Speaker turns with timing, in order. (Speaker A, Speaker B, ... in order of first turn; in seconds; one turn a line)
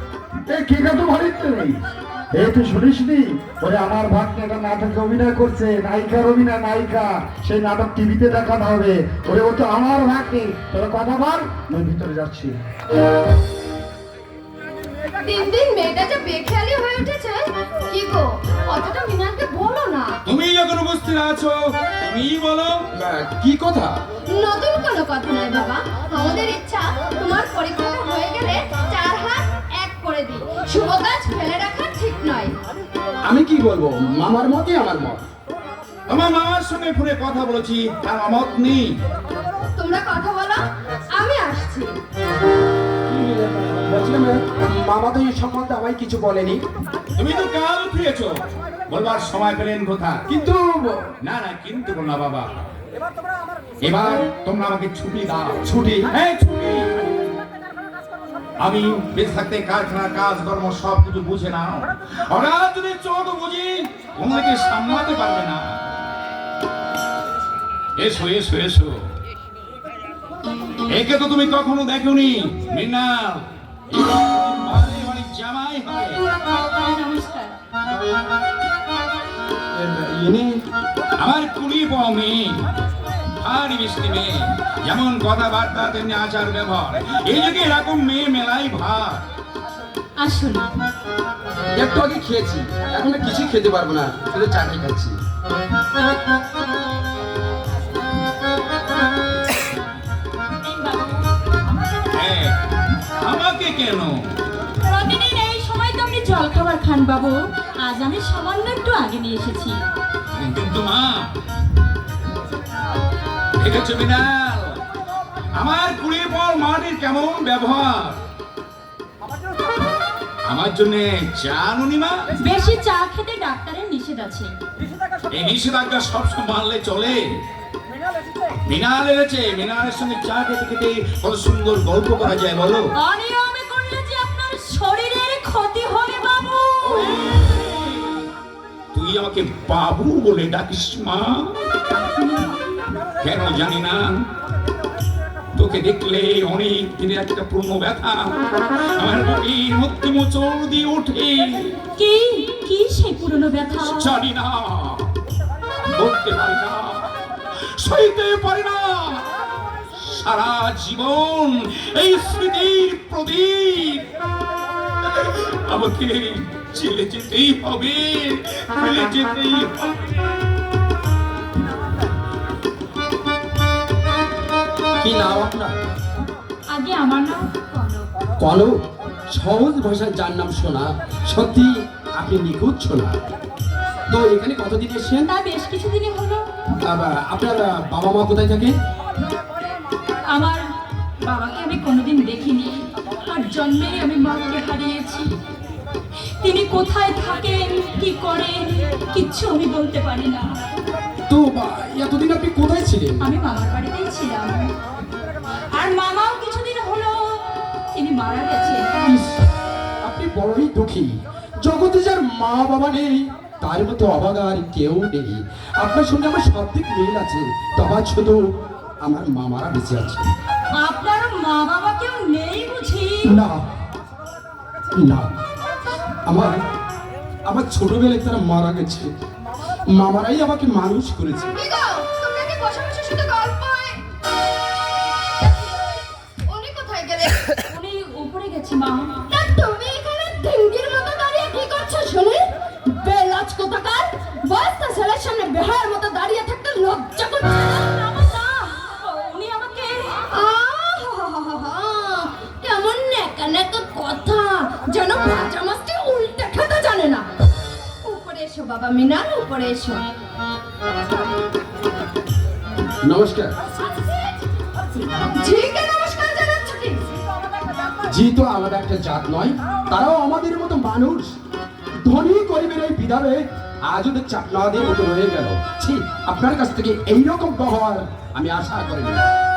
Speaker A: 0.5-1.8
Speaker A: 2.3-12.6
Speaker B: 15.2-20.2
Speaker C: 20.2-22.9
Speaker D: 23.0-24.0
Speaker B: 24.3-32.5
Speaker D: 33.2-35.3
Speaker C: 36.1-39.0
Speaker B: 39.7-42.0
Speaker D: 43.1-46.6
Speaker C: 47.2-48.4
Speaker C: 48.9-50.3
Speaker D: 50.3-51.1
Speaker C: 51.2-52.5
Speaker C: 53.8-56.9
Speaker D: 55.7-56.1
Speaker C: 58.6-65.8
Speaker C: 68.0-69.0
Speaker C: 70.9-76.2
Speaker E: 76.7-77.5
Speaker D: 79.8-80.6
Speaker C: 81.2-82.7
Speaker C: 83.4-89.2
Speaker E: 90.2-90.7
Speaker D: 91.7-95.2
Speaker E: 100.6-102.1
Speaker C: 102.1-102.6
Speaker C: 103.2-104.1
Speaker E: 104.8-109.8
Speaker C: 110.4-111.3
Speaker C: 113.6-114.8
Speaker C: 115.5-118.2
Speaker C: 120.5-122.2
Speaker E: 122.4-124.5
Speaker C: 125.3-127.4
Speaker C: 128.6-132.9
Speaker E: 133.0-137.3
Speaker C: 136.9-138.2
Speaker C: 138.9-141.6
Speaker E: 142.2-142.6
Speaker C: 143.2-144.2
Speaker C: 145.6-151.8
Speaker E: 151.9-154.1
Speaker C: 153.8-155.1
Speaker C: 155.9-159.3
Speaker C: 159.9-164.1
Speaker C: 165.0-170.1
Speaker D: 175.0-175.8
Speaker E: 176.7-178.1
Speaker D: 178.4-183.2
Speaker D: 184.1-185.3
Speaker E: 185.3-186.5
Speaker D: 186.8-188.7
Speaker E: 190.3-190.6
Speaker E: 191.3-195.3
Speaker E: 196.4-200.5
Speaker D: 201.3-203.3
Speaker E: 203.2-204.7
Speaker E: 205.8-208.9
Speaker D: 209.0-209.5
Speaker D: 210.0-218.5
Speaker D: 219.0-220.3
Speaker E: 220.8-223.4
Speaker D: 223.2-223.7
Speaker D: 225.0-225.3
Speaker D: 226.3-226.6
Speaker D: 227.5-229.1
Speaker D: 229.9-231.5
Speaker B: 231.5-234.0
Speaker B: 235.4-237.4
Speaker E: 237.7-239.2
Speaker B: 239.3-247.8
Speaker E: 247.7-250.2
Speaker B: 250.2-257.2
Speaker B: 258.0-260.1
Speaker D: 263.1-263.5
Speaker B: 265.1-267.0
Speaker D: 268.1-271.4
Speaker D: 272.0-279.2